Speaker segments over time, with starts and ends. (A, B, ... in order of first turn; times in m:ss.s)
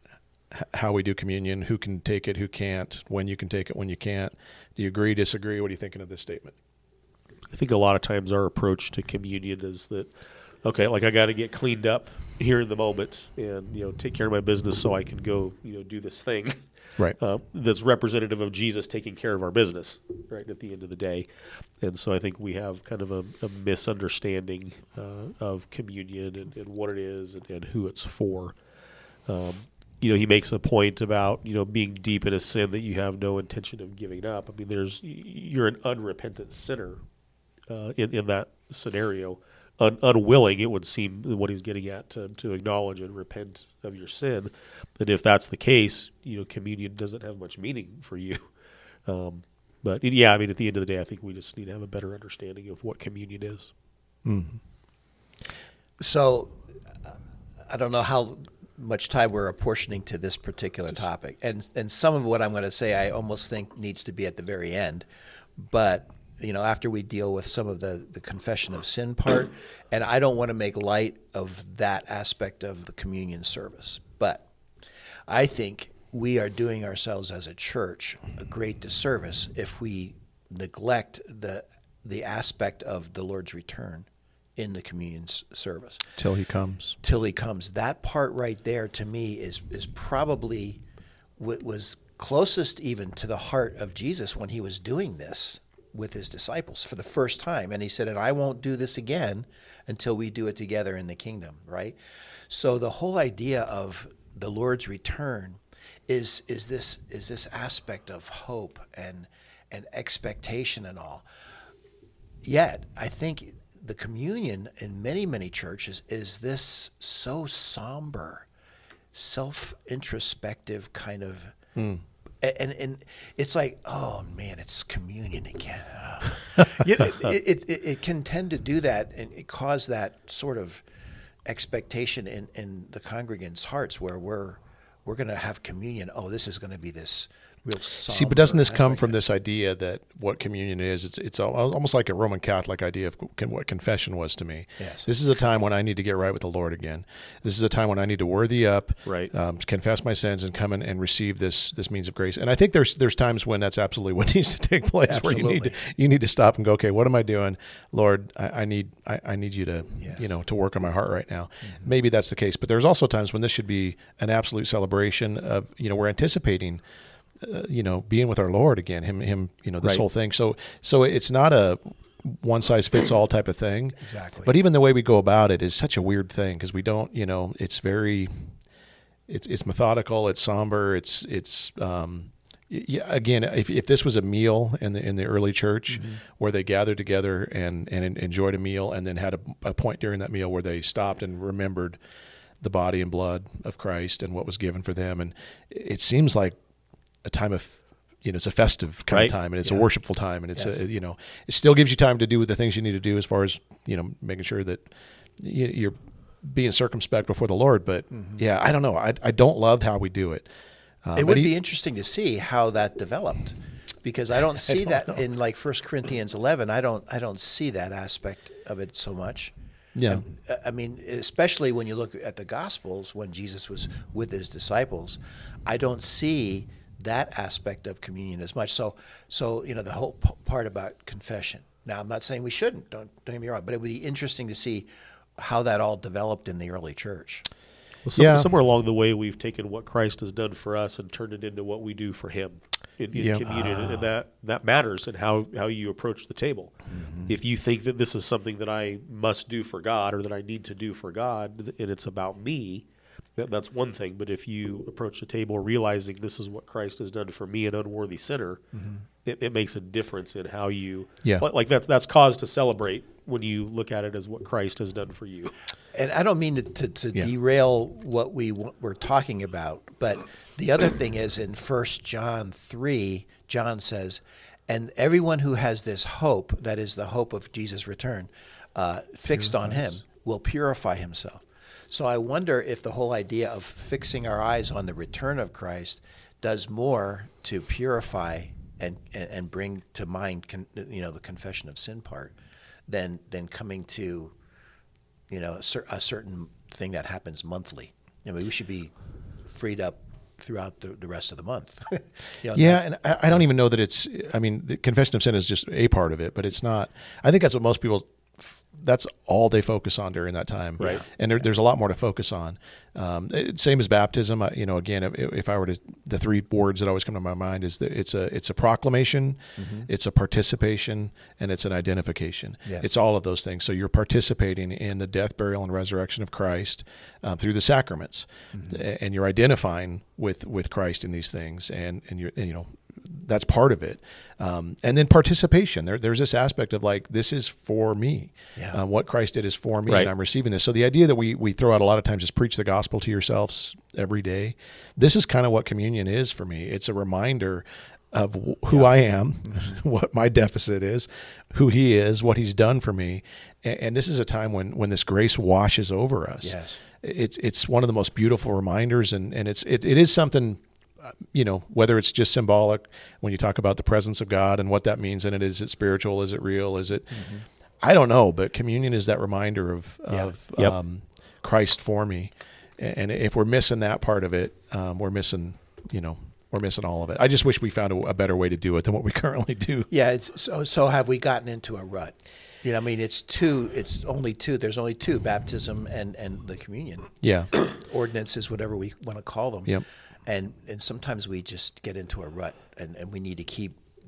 0:00.5-0:06.5 A
0:07.5-0:10.1 B
0:10.6-0:16.6 B
0:17.2-0:21.3 B
0:21.8-0:28.5 B
0:29.3-0:37.0 B
0:37.7-0:48.4 B
0:49.0-0:53.7 B
0:54.2-0:54.6 A
0:56.0-0:56.6 C
0:57.7-1:05.0 C
1:05.6-1:14.5 C
1:15.3-1:26.1 C
1:26.2-1:27.0 A
1:27.0-1:30.8 C
1:31.4-1:42.0 C
1:42.5-1:51.2 C
1:52.4-1:58.5 C
1:59.1-2:01.6 C
2:01.8-2:02.0 A
2:02.4-2:10.8 C
2:11.4-2:19.2 C
2:18.1-2:46.8 A
2:24.8-2:25.1 C
2:29.0-2:29.3 B
2:35.0-2:35.8 C
2:47.4-2:58.5 A
2:54.0-2:54.5 C
2:59.3-3:12.0 A
3:05.9-3:06.2 C
3:12.6-3:16.6 A
3:17.2-3:30.5 A
3:28.1-3:28.4 C
3:31.0-3:31.5 A
3:31.2-3:39.5 C
3:39.9-3:40.2 A
3:40.0-3:57.4 C
3:58.0-4:06.7 B
3:58.1-3:58.5 A
4:03.1-4:03.4 A
4:03.4-4:04.1 C
4:06.9-4:07.3 C
4:07.3-4:12.8 B
4:13.4-4:18.6 B
4:18.7-4:19.0 C
4:19.2-4:25.5 B
4:25.9-4:52.3 C
4:52.9-4:54.3 C
4:55.3-4:58.9 C
4:59.5-5:02.8 C
5:02.5-6:07.2 A
5:19.6-5:19.9 C
5:28.5-5:28.8 C
5:49.5-5:49.8 C
5:56.4-5:56.8 C
6:07.1-6:07.4 C
6:07.8-6:19.9 A
6:19.9-6:33.8 C
6:27.2-6:27.5 A